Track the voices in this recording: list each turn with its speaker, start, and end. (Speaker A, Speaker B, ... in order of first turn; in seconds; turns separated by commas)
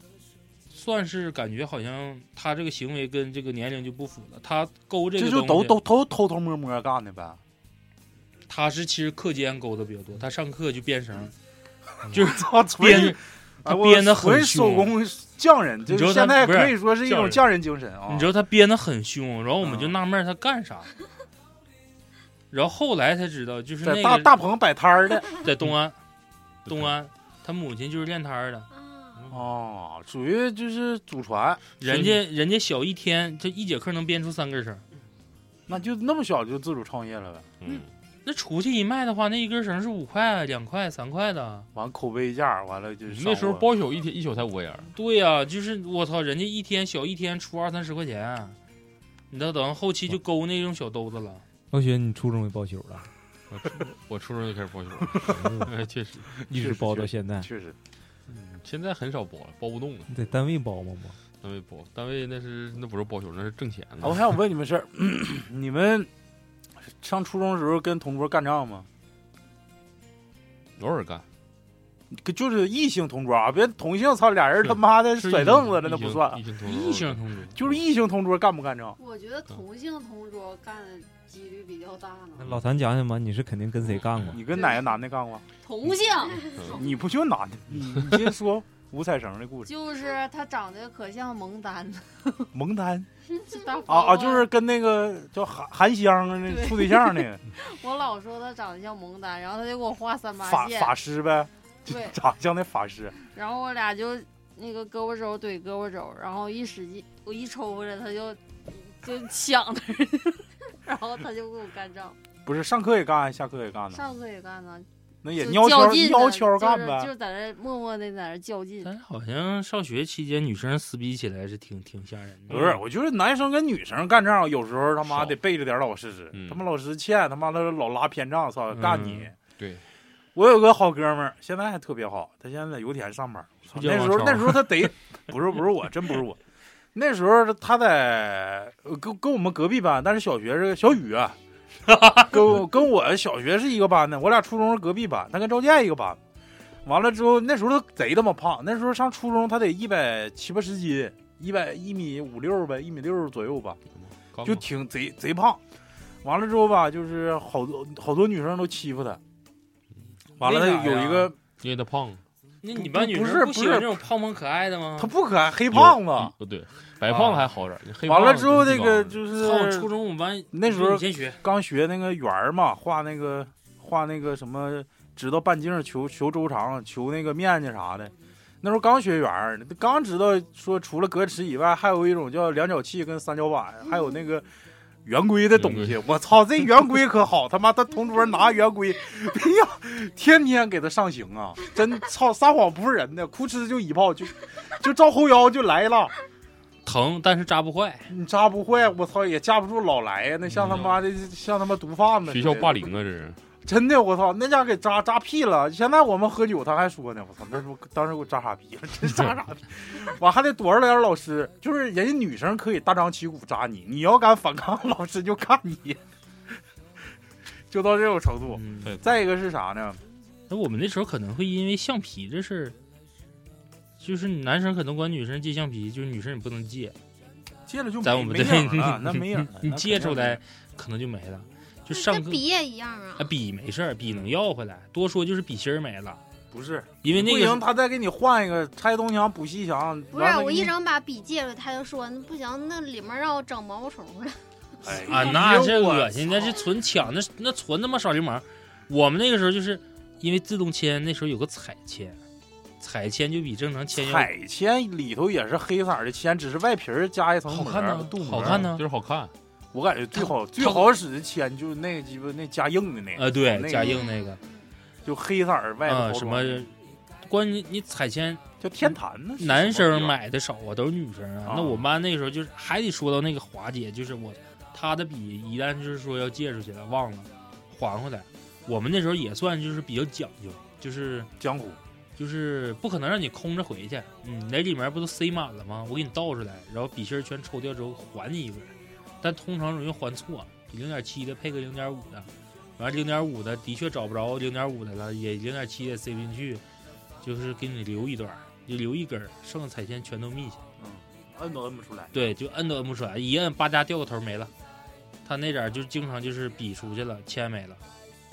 Speaker A: 0.7-5.8, Speaker B: 5.2-7.4, Speaker A: 8.5-11.3, Speaker A: 12.1-14.9, Speaker B: 12.1-18.3, Speaker A: 15.9-16.8, Speaker C: 17.1-17.4, Speaker A: 18.1-20.9, Speaker B: 19.6-19.9, Speaker A: 22.5-24.4, Speaker B: 23.8-25.3, Speaker A: 25.4-26.0, Speaker C: 26.6-26.9, Speaker A: 26.7-28.7, Speaker D: 28.7-29.3, Speaker B: 29.3-31.6, Speaker A: 31.8-34.8, Speaker C: 31.8-32.2, Speaker B: 35.7-37.5, Speaker C: 37.6-37.9, Speaker A: 37.6-41.7, Speaker B: 41.7-43.7, Speaker C: 43.1-44.9, Speaker A: 44.9-48.5, Speaker A: 49.3-51.4, Speaker E: 51.7-53.1, Speaker C: 53.5-56.4, Speaker E: 55.2-55.7, Speaker E: 56.3-57.5, Speaker B: 56.5-57.7, Speaker C: 58.3-60.1, Speaker E: 60.1-61.2, Speaker C: 61.4-64.2, Speaker B: 64.0-66.1, Speaker B: 66.8-68.9, Speaker C: 70.8-71.2, Speaker B: 72.1-76.4, Speaker C: 75.1-77.8, Speaker A: 76.6-77.5, Speaker B: 77.5-79.0, Speaker F: 79.0-82.5, Speaker E: 82.4-84.4, Speaker C: 83.9-84.3, Speaker B: 84.3-85.4, Speaker F: 85.6-86.9, Speaker B: 86.7-89.7, Speaker F: 89.6-92.5, Speaker B: 92.5-93.1, Speaker F: 93.4-94.5, Speaker B: 93.8-97.4, Speaker F: 96.5-101.0, Speaker B: 100.4-103.1, Speaker F: 101.8-102.2, Speaker F: 103.3-112.2, Speaker B: 112.5-114.0, Speaker F: 113.9-118.9, Speaker B: 115.2-117.1, Speaker A: 118.8-122.8, Speaker B: 122.5-129.3, Speaker C: 125.0-125.3, Speaker C: 126.3-126.6, Speaker A: 128.7-129.3, Speaker C: 129.6-129.8, Speaker B: 130.3-136.4, Speaker A: 133.7-134.9, Speaker B: 136.9-141.4, Speaker A: 141.9-142.3, Speaker B: 142.2-146.2, Speaker B: 146.8-153.8, Speaker C: 153.9-154.6, Speaker B: 154.4-155.6, Speaker B: 156.2-159.2, Speaker B: 160.4-161.4, Speaker A: 160.4-161.3, Speaker C: 161.6-162.2, Speaker A: 162.6-165.1, Speaker B: 162.7-164.0, Speaker B: 165.0-166.3, Speaker C: 165.7-169.2, Speaker B: 167.1-167.5, Speaker B: 168.0-169.9, Speaker A: 169.3-171.4, Speaker B: 170.5-184.5, Speaker B: 185.0-196.1, Speaker C: 185.5-185.9, Speaker A: 196.8-198.1, Speaker B: 198.1-202.8, Speaker C: 200.5-201.0, Speaker C: 202.3-203.4, Speaker B: 203.7-216.0, Speaker B: 217.7-220.0, Speaker A: 218.5-218.9, Speaker C: 218.8-219.1, Speaker A: 220.5-222.8, Speaker A: 224.0-226.9, Speaker B: 227.7-230.4, Speaker A: 228.0-232.4, Speaker D: 231.9-233.3, Speaker A: 233.2-236.2, Speaker B: 236.5-240.8, Speaker A: 237.0-237.6, Speaker D: 240.1-245.3, Speaker B: 244.8-246.6, Speaker A: 245.0-252.2, Speaker A: 252.8-254.3, Speaker B: 253.9-258.7, Speaker A: 257.5-258.8, Speaker C: 258.1-259.3, Speaker B: 259.7-264.0, Speaker A: 260.1-260.9, Speaker A: 263.1-264.4, Speaker D: 263.7-264.7, Speaker B: 265.0-266.7, Speaker A: 265.9-281.3, Speaker B: 268.6-270.2, Speaker B: 271.4-271.9, Speaker B: 281.4-281.8, Speaker A: 282.2-296.6, Speaker A: 297.2-300.6, Speaker B: 300.8-302.2, Speaker A: 302.1-304.5, Speaker A: 305.2-307.8